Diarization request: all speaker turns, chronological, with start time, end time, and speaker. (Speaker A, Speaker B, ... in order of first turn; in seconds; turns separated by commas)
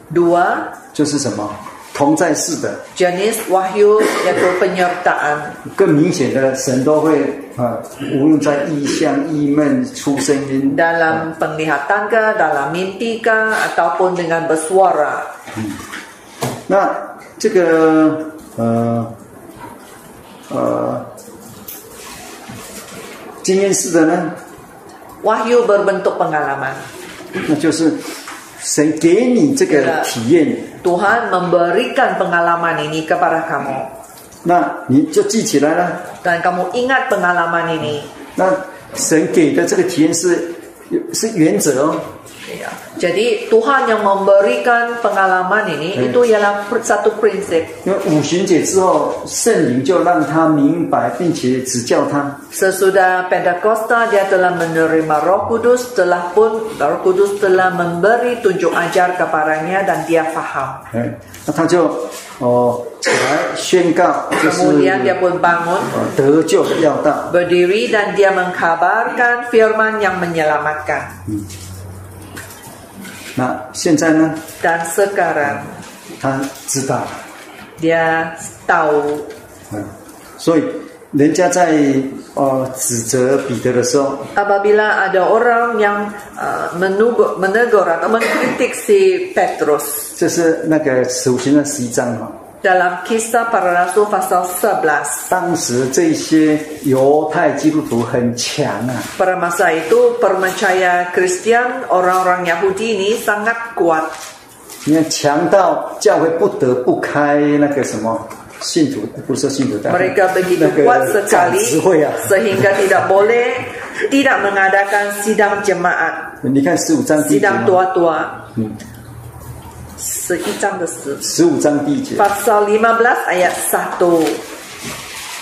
Speaker A: 0.1-0.7, Speaker B: 0.9-2.8, Speaker A: 3.0-5.6, Speaker B: 5.7-11.2, Speaker A: 10.7-15.3, Speaker B: 16.7-19.1, Speaker B: 20.5-21.1, Speaker B: 23.4-24.4, Speaker A: 25.2-26.8, Speaker B: 27.4-28.0, Speaker B: 28.6-30.7, Speaker A: 29.7-30.1, Speaker A: 30.8-33.9, Speaker B: 34.4-36.0, Speaker A: 36.2-38.1, Speaker B: 38.4-42.1, Speaker A: 42.5-47.7, Speaker B: 46.0-46.2, Speaker B: 47.8-52.4, Speaker A: 52.5-60.9, Speaker B: 60.9-65.2, Speaker A: 64.4-65.9, Speaker B: 65.9-67.3, Speaker A: 67.3-71.2, Speaker B: 73.4-74.4, Speaker A: 74.6-75.7, Speaker B: 76.2-77.2, Speaker A: 77.8-79.3, Speaker B: 79.7-84.3, Speaker A: 84.3-90.1, Speaker B: 90.2-92.4, Speaker A: 92.6-95.3, Speaker B: 95.3-99.1, Speaker A: 99.2-104.2, Speaker B: 104.8-112.6, Speaker A: 109.9-116.3, Speaker B: 116.4-117.8, Speaker A: 117.2-118.4, Speaker A: 120.0-121.2, Speaker B: 121.2-122.3, Speaker A: 122.2-124.4